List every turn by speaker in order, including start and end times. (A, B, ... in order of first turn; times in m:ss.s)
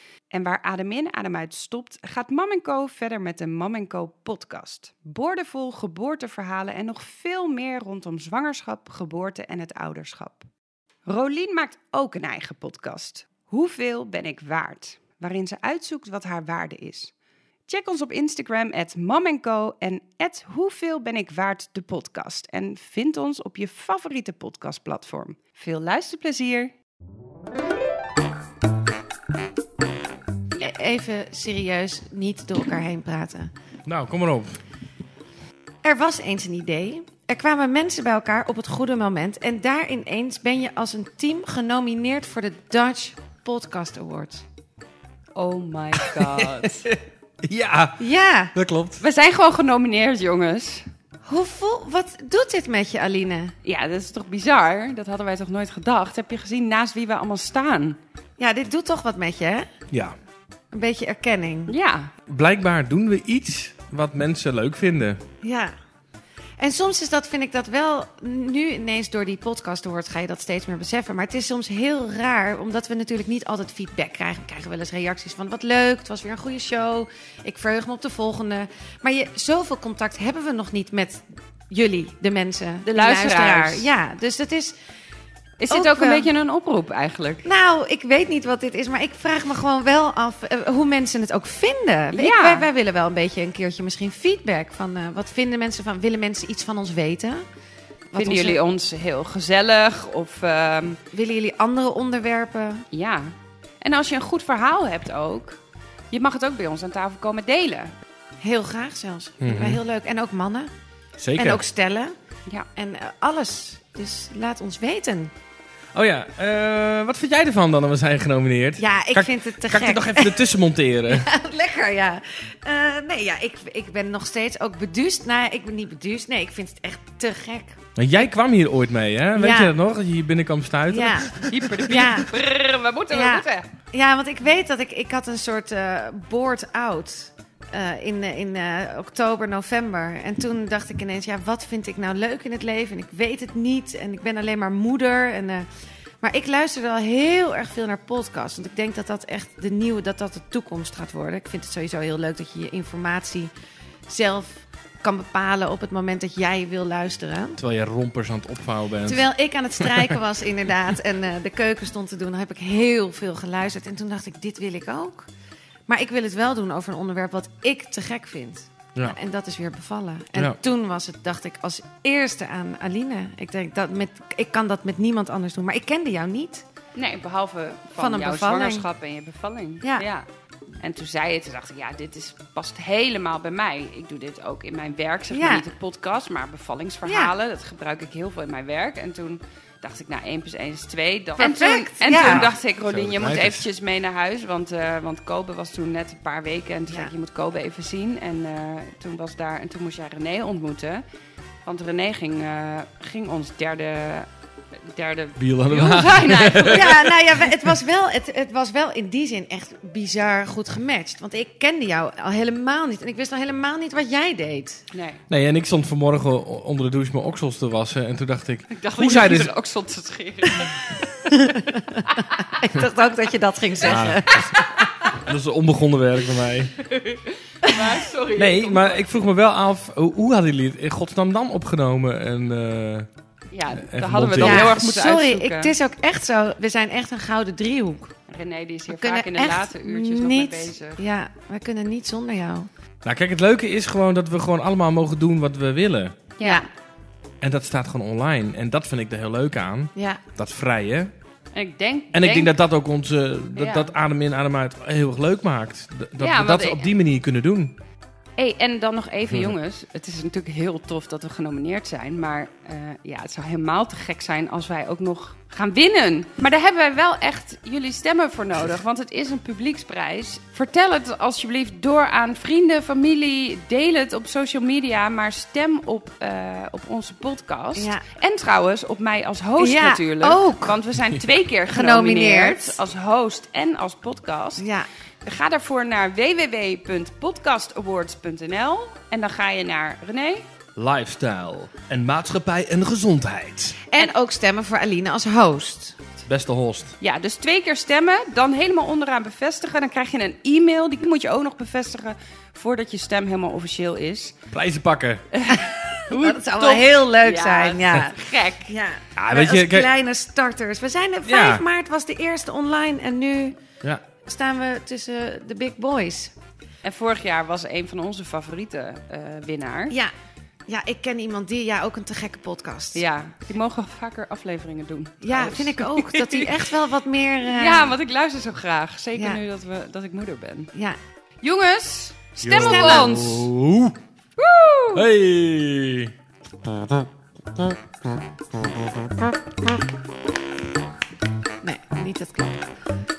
0:00.3-0:10.5 A
0:11.1-0:17.1 A
0:17.7-0:26.7 A
0:30.6-0:33.5 B
0:33.9-0:34.6 C
0:35.8-0:44.4 B
0:45.4-0:46.9 A
0:46.0-0:49.0 C
0:48.0-0:48.5 B
0:49.0-0:50.9 A
0:51.2-0:53.6 B
0:53.6-0:58.0 A
0:58.4-0:59.7 B
0:59.9-1:00.2 C
1:00.7-1:01.7 B
1:01.7-1:02.1 A
1:02.3-1:05.2 C
1:05.4-1:05.7 B
1:06.6-1:24.8 B
1:22.9-1:23.9 A
1:25.6-1:27.5 A
1:25.7-1:26.3 B
1:27.4-1:37.4 B
1:32.1-1:32.7 A
1:38.1-1:38.6 B
1:38.2-1:41.0 A
1:41.1-1:42.9 B
1:42.9-1:45.6 A
1:46.1-1:47.9 A
1:48.4-1:50.7 B
1:49.4-1:49.8 C
1:51.2-1:51.6 C
1:51.4-1:52.1 B
1:52.8-1:55.3 B
1:55.9-2:01.3 C
1:58.8-2:00.4 B
2:01.1-2:07.8 B
2:08.0-2:12.0 C
2:09.4-2:09.7 B
2:10.9-2:12.4 B
2:11.5-2:13.7 A
2:13.1-2:25.7 B
2:26.2-2:33.5 B
2:34.1-2:37.6 B
2:37.6-2:39.3 C
2:39.1-2:45.3 B
2:39.8-2:40.2 C
2:45.9-2:56.6 B
2:57.0-3:00.2 A
2:58.0-2:58.9 B
2:59.8-3:00.1 B
3:00.8-3:21.0 A
3:05.3-3:05.6 B
3:07.0-3:07.3 B
3:11.4-3:12.5 B
3:12.1-3:13.6 C
3:21.6-3:27.0 A
3:25.4-3:27.2 C
3:26.6-3:34.8 B
3:34.9-3:35.2 A
3:35.3-3:39.6 C
3:38.7-3:41.0 A
3:41.3-3:44.9 B
3:42.1-3:42.5 A
3:43.8-3:44.6 C
3:45.2-3:46.8 C
3:46.8-3:49.3 A
3:48.4-3:53.1 C
3:53.5-3:55.7 A
3:53.8-3:54.8 C
3:54.4-3:58.1 B
3:58.3-4:01.0 A
3:58.9-4:02.7 B
4:03.0-4:06.2 C
4:06.4-4:06.7 A
4:07.4-4:11.1 C
4:10.0-4:10.2 B
4:11.5-4:12.5 A
4:12.1-4:17.8 C
4:13.6-4:13.9 A
4:16.2-4:16.9 A
4:18.4-4:44.7 A
4:37.8-4:38.0 B
4:39.6-4:40.8 B
4:41.7-4:42.8 B
4:44.6-4:44.9 B
4:45.2-4:50.4 A
4:50.8-4:53.8 C
4:53.9-4:56.0 B
4:56.3-4:57.0 C
4:57.0-5:04.4 A
5:04.5-5:05.2 C
5:05.3-5:08.7 A
5:05.5-5:08.2 B
5:08.7-5:13.6 B
5:09.2-5:09.9 C
5:11.2-5:11.6 C
5:14.2-5:16.3 B
5:16.8-5:20.0 A
5:20.7-5:23.0 B
5:22.9-5:26.6 A
5:25.2-5:28.0 B
5:27.5-5:30.7 A
5:29.2-5:29.4 B
5:31.4-5:33.5 A
5:32.4-5:34.0 C
5:32.6-5:33.2 B
5:34.4-5:35.0 A
5:34.9-5:36.1 C
5:41.6-5:42.6 B